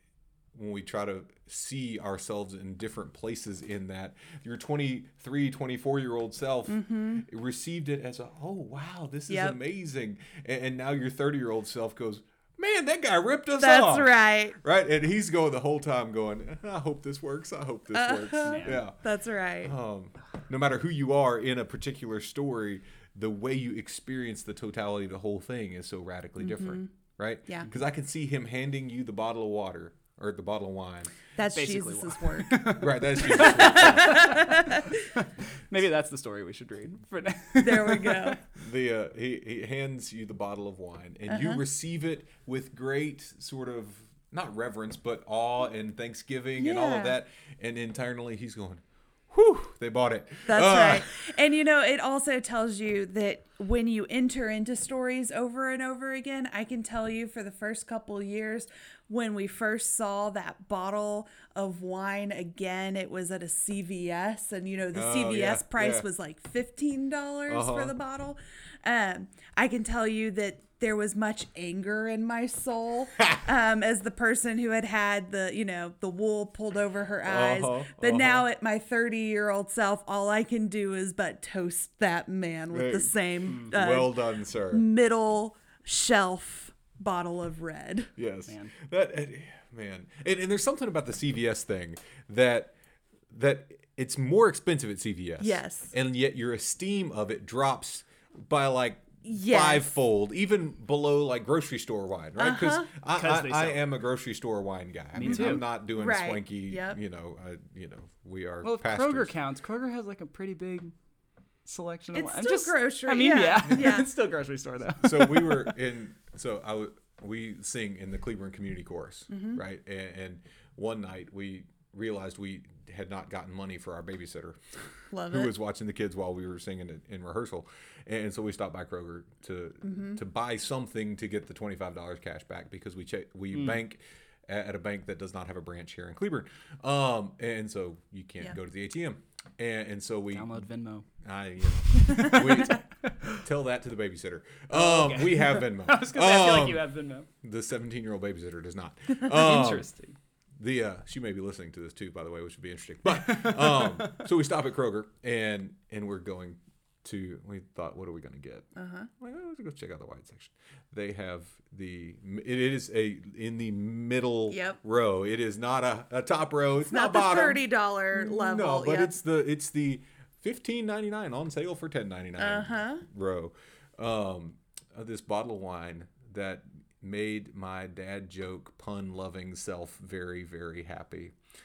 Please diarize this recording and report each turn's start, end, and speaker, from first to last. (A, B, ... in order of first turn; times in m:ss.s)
0:00.5-0:19.0 A
0:06.7-0:07.2 B
0:09.3-0:09.6 B
0:13.6-0:14.6 B
0:17.9-0:19.7 B
0:18.4-0:18.8 C
0:19.6-0:31.2 A
0:26.4-0:26.9 B
0:31.4-0:32.7 B
0:31.6-0:38.4 C
0:32.7-0:34.4 A
0:33.2-0:34.9 B
0:37.6-0:38.4 B
0:38.6-0:51.4 A
0:41.3-0:41.6 B
0:46.6-0:47.2 B
0:50.5-1:28.1 B
1:04.9-1:06.1 A
1:07.5-1:08.0 A
1:17.2-1:18.5 A
1:22.7-1:24.9 A
1:23.5-1:23.8 C
1:28.2-1:32.7 A
1:28.5-1:28.7 C
1:33.3-1:49.3 A
1:35.4-1:36.0 B
1:39.2-1:39.9 B
1:42.4-1:42.9 B
1:43.1-1:43.8 C
1:45.2-1:45.6 C
1:45.2-1:47.0 B
1:48.6-1:50.9 C
1:51.6-1:55.8 C
1:52.1-1:54.1 B
1:55.0-2:20.6 A
1:59.3-1:59.6 B
2:05.1-2:05.5 B
2:09.8-2:10.2 B
2:13.5-2:13.8 C
2:20.3-2:23.4 C
2:21.2-2:26.9 A
2:24.7-2:27.3 C
2:27.4-2:29.9 A
2:29.2-2:30.2 C
2:30.6-3:01.4 A
2:33.2-2:34.2 C
2:38.8-2:39.1 B
2:44.5-2:44.8 B
2:46.9-2:49.1 B
2:52.4-2:53.0 B